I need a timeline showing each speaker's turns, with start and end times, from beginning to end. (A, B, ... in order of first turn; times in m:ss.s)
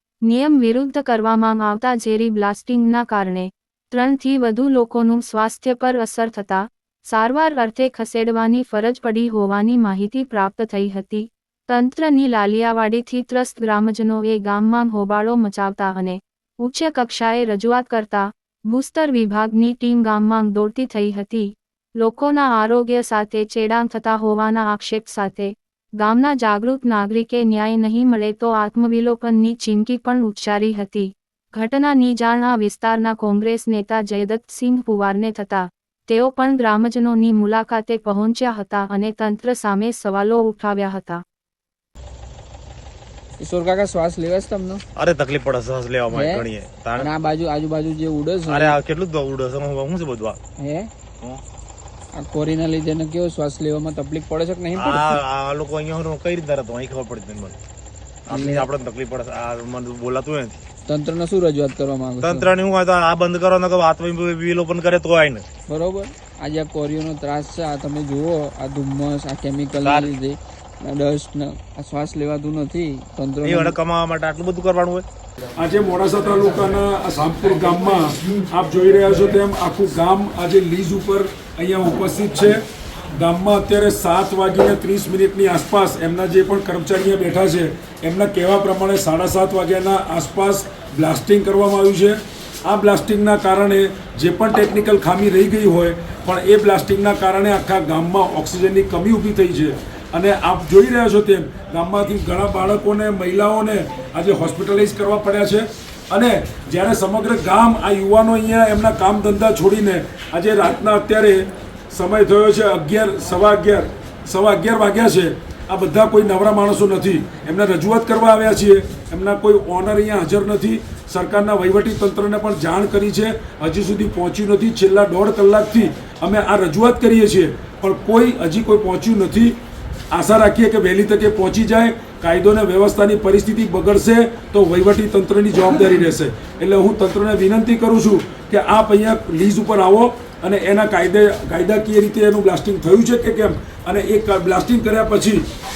0:00.2-0:41.2 A
0:43.4-0:44.8 B
0:45.0-0:47.1 C
0:46.1-0:48.8 B
0:48.5-0:50.4 C
0:50.6-0:50.9 B
0:52.2-0:55.2 B
0:54.8-0:57.6 C
0:58.3-1:00.6 C
0:58.3-0:58.7 B
1:00.9-1:02.5 B
1:02.2-1:05.4 C
1:05.7-1:13.8 B
1:09.8-1:10.1 C
1:13.4-1:15.0 C
1:15.6-1:22.6 D
1:23.1-2:09.6 D
2:10.1-2:25.4 D